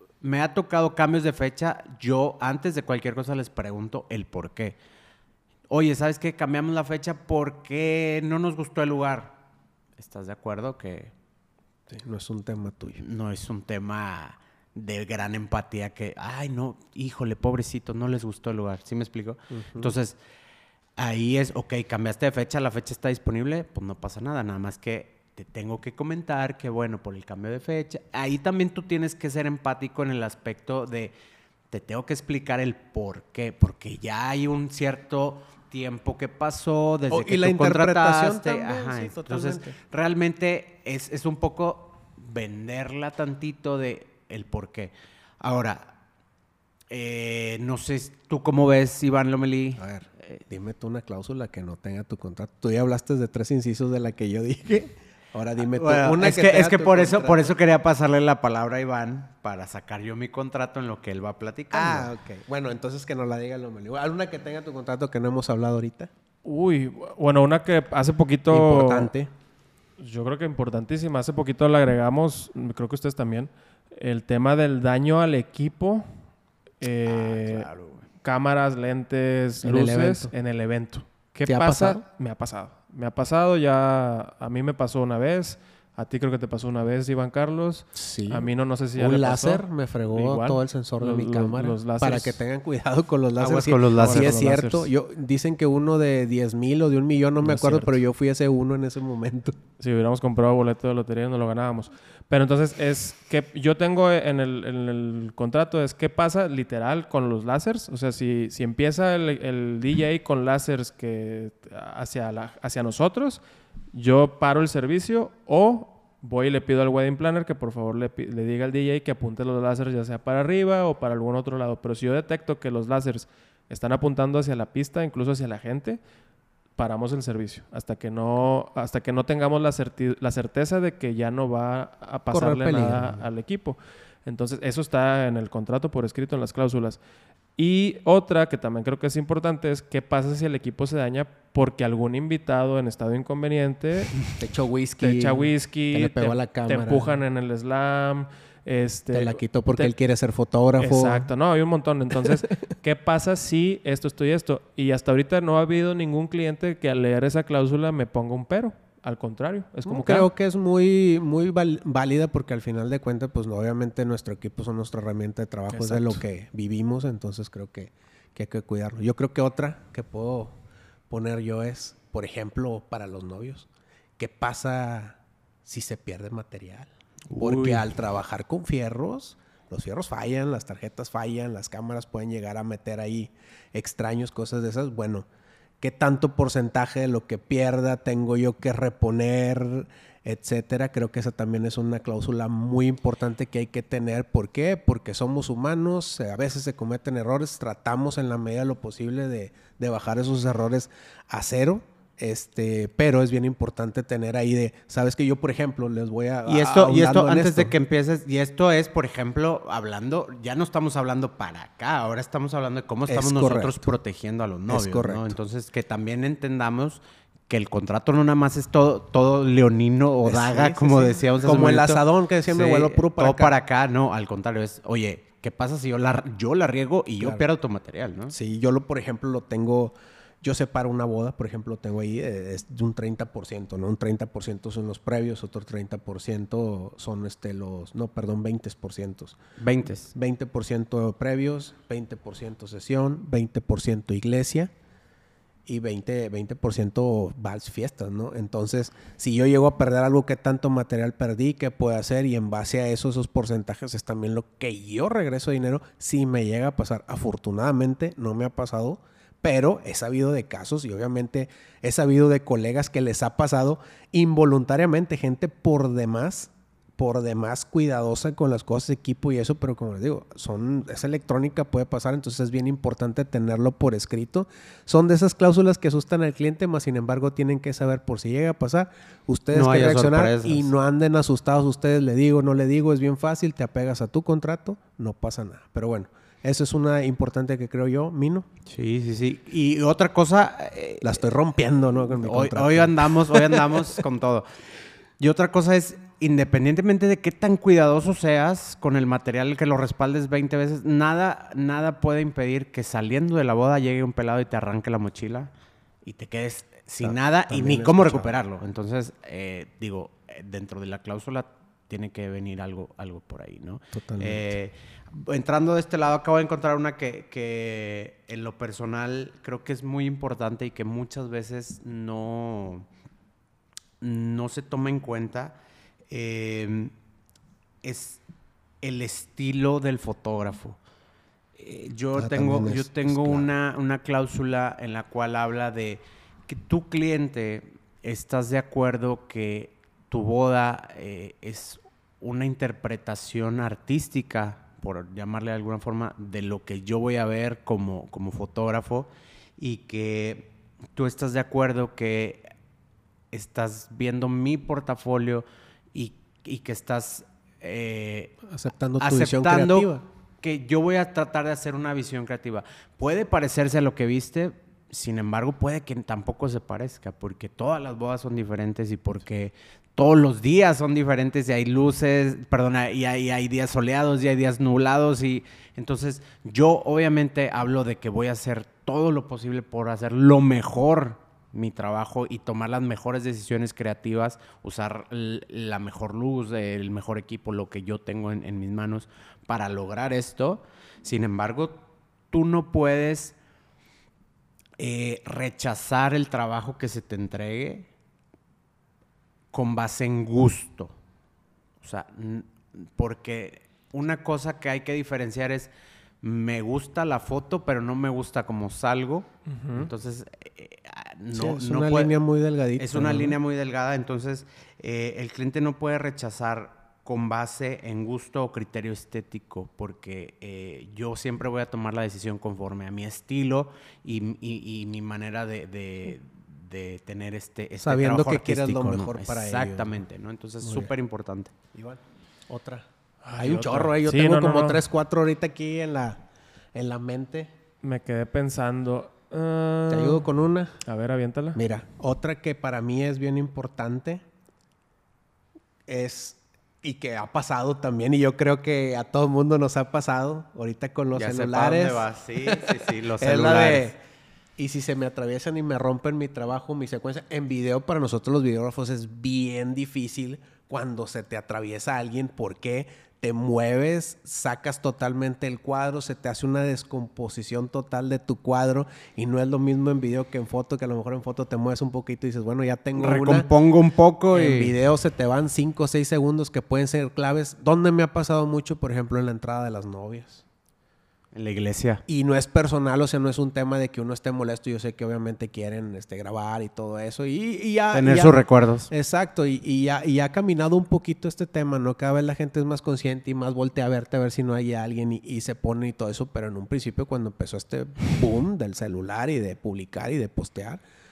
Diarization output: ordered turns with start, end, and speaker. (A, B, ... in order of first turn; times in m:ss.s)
0:00.2-0:04.8 A
0:05.7-0:09.4 A
0:10.0-0:11.1 A
0:11.9-0:13.0 B
0:13.0-0:20.2 A
0:19.5-0:19.9 B
0:21.0-0:31.1 A
0:31.7-0:45.9 A
0:37.1-0:39.8 B
0:46.9-0:49.8 A
0:49.8-0:57.5 B
0:55.6-1:02.1 A
1:01.7-1:06.1 B
1:06.4-1:09.1 C
1:08.5-1:09.3 B
1:10.0-1:16.1 C
1:16.8-1:17.7 C
1:17.1-1:18.1 A
1:18.2-1:32.4 C
1:19.6-1:20.3 B
1:21.5-1:22.0 B
1:28.0-1:28.5 B
1:29.0-1:39.6 B
1:33.4-1:34.4 A
1:34.0-1:34.9 C
1:37.4-1:38.0 C
1:39.8-1:53.4 C
1:53.9-2:06.0 C
2:06.8-2:17.0 C
2:12.3-2:13.2 B
2:17.6-2:24.3 C
2:24.4-2:27.2 B
2:25.0-2:29.9 C
2:29.1-2:31.3 B
2:30.8-2:40.3 C
2:39.9-2:50.5 B
2:45.7-2:46.2 C
2:51.1-2:53.7 B
2:54.2-3:05.3 B
2:57.3-2:57.9 A
3:05.8-3:27.7 B
3:26.5-3:48.4 A
3:33.1-3:33.9 B
3:34.7-3:35.4 B
3:40.2-3:43.6 B
3:48.3-3:59.4 B
3:59.6-4:00.1 A
4:00.1-4:04.7 B
4:05.7-4:48.5 B
4:39.5-4:40.7 A
4:48.7-4:51.2 A
4:51.0-4:54.0 B
4:52.0-4:54.5 A
4:55.2-5:05.5 A
5:06.0-5:22.9 A
5:07.0-5:08.4 B
5:13.9-5:14.6 B
5:24.0-5:25.6 A
5:26.1-5:26.9 A
5:27.8-5:28.2 A
5:28.8-5:30.8 A
5:31.6-5:52.5 A
5:32.2-5:33.5 B
5:53.3-5:58.4 A
5:58.5-6:00.0 B
5:59.0-5:59.9 A
6:00.4-6:33.4 A
6:34.8-6:37.9 A
6:39.5-6:40.9 A
6:41.8-6:45.7 A
6:46.2-6:52.2 A
6:49.5-6:49.9 C
6:51.3-6:53.4 B
6:52.8-7:11.5 A
7:07.8-7:09.9 B
7:10.6-7:10.9 B
7:11.7-7:12.9 B
7:13.2-7:14.8 C
7:13.4-7:16.2 B
7:16.8-7:17.5 B
7:17.8-7:20.3 C
7:19.9-7:20.8 B
7:20.8-7:21.6 C
7:21.6-7:24.2 B
7:25.9-7:34.0 B
7:31.2-7:33.9 A
7:34.6-7:53.5 B
7:53.0-7:54.7 A
7:54.3-8:00.4 B
8:01.3-8:02.0 A
8:02.1-8:20.8 B
8:07.9-8:08.9 A